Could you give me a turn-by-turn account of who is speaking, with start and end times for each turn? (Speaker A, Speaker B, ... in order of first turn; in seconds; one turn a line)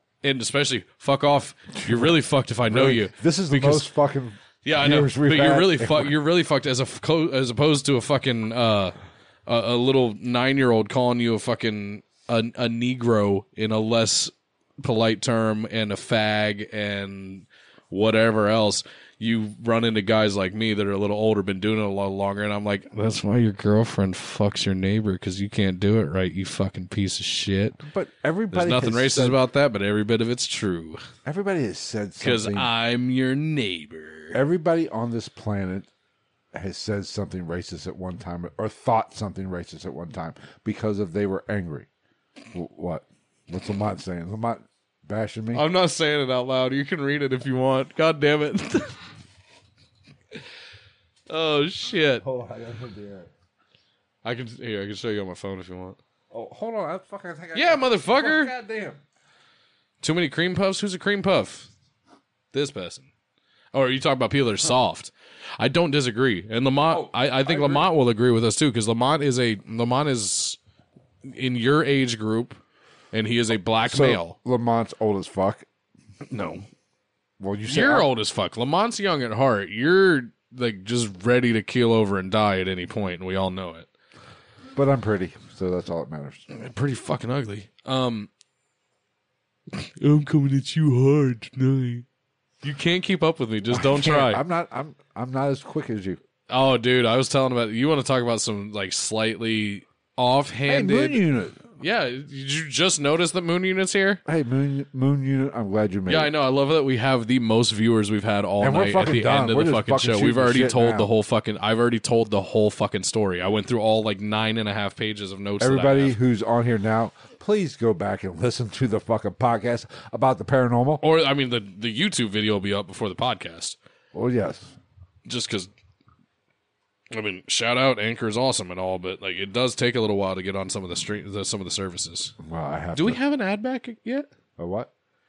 Speaker A: 0.2-3.9
Speaker B: 1.7-2.1
Speaker B: 2.7-6.2
Speaker A: 4.6-8.9
Speaker A: 9.4-27.8
Speaker B: 27.8-29.4
Speaker A: 28.5-31.0
Speaker B: 31.2-32.7
Speaker A: 32.2-34.4
Speaker B: 34.3-35.9
Speaker B: 36.5-41.9
Speaker B: 42.5-45.6
Speaker A: 45.5-49.0
Speaker A: 51.3-52.2
Speaker B: 52.2-53.3
Speaker A: 54.2-56.0
Speaker B: 56.3-59.0
Speaker A: 57.5-58.5
Speaker A: 60.0-61.7
Speaker A: 62.5-63.1
Speaker A: 63.7-70.6
Speaker B: 66.9-67.9
Speaker A: 71.2-72.6
Speaker A: 73.1-74.3
Speaker B: 73.8-75.7
Speaker A: 76.3-76.6
Speaker B: 77.4-78.1
Speaker A: 77.7-83.9
Speaker B: 84.7-86.5
Speaker A: 86.5-88.3
Speaker A: 89.7-92.0
Speaker A: 92.6-94.4
Speaker B: 93.7-96.2
Speaker A: 96.5-104.2
Speaker B: 100.7-101.6
Speaker B: 104.2-106.3
Speaker A: 106.1-116.2
Speaker B: 108.6-111.1
Speaker B: 115.6-121.0
Speaker A: 121.0-123.8
Speaker B: 124.1-124.8
Speaker A: 125.2-125.7
Speaker A: 127.1-132.3
Speaker B: 132.4-133.2
Speaker A: 132.9-134.3
Speaker B: 134.6-134.9